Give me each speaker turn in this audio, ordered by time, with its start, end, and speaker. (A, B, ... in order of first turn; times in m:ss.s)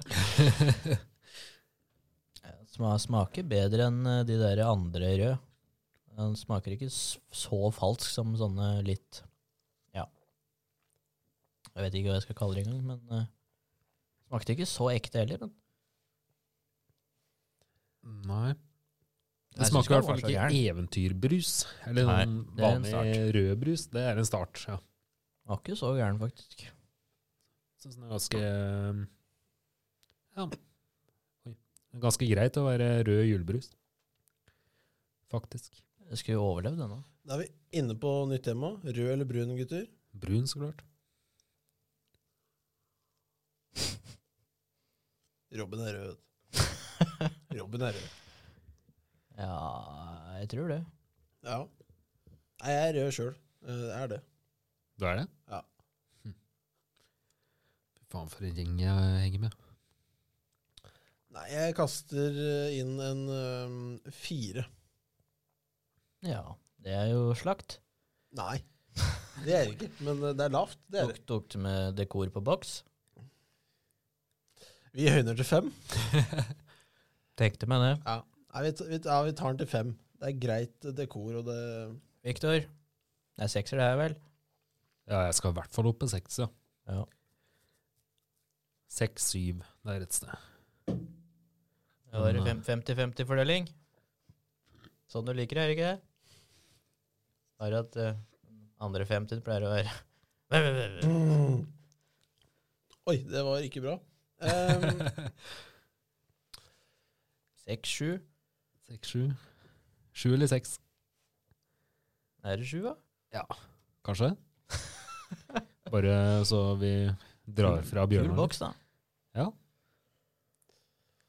0:02.4-0:05.4 A
0:06.1-0:09.2 A
0:11.7-0:13.3 A
0:14.3-0:15.6 A
0:18.0-0:18.6 B
0:19.5-0:20.6 A
0:19.6-0:24.8 B
0:22.0-0:23.3 A
0:25.5-0:26.7 A
0:27.8-0:29.1 B
0:31.4-0:33.7 B
0:35.3-0:35.8 B
0:36.1-0:37.0 A
0:37.2-0:39.9 C
0:40.1-0:40.8 B
0:45.5-0:46.2 C
0:47.5-0:48.1 C
0:49.3-0:50.9 A
0:51.4-0:51.7 C
0:52.6-0:54.2 C
0:55.0-0:55.3 B
0:58.0-0:59.5 B
1:01.3-1:04.7 C
1:06.2-1:07.8 A
1:08.3-1:08.6 C
1:09.3-1:11.2 C
1:11.0-1:12.8 A
1:14.9-1:15.9 C
1:17.4-1:18.0 A
1:18.0-1:22.0 C
1:22.2-1:22.7 A
1:23.4-1:24.2 A
1:25.1-1:26.5 B
1:28.9-1:30.3 B
1:32.1-1:33.7 A
1:32.1-1:32.6 B
1:35.1-1:36.0 A
1:37.6-1:41.2 A
1:41.0-1:41.7 C
1:43.0-1:45.1 C
1:44.7-1:45.3 B
1:47.6-1:48.2 A
1:48.9-1:49.3 B
1:50.1-1:50.8 B
1:52.4-1:53.0 A
1:54.0-1:54.4 B
1:55.9-1:58.5 B
1:58.1-1:58.8 A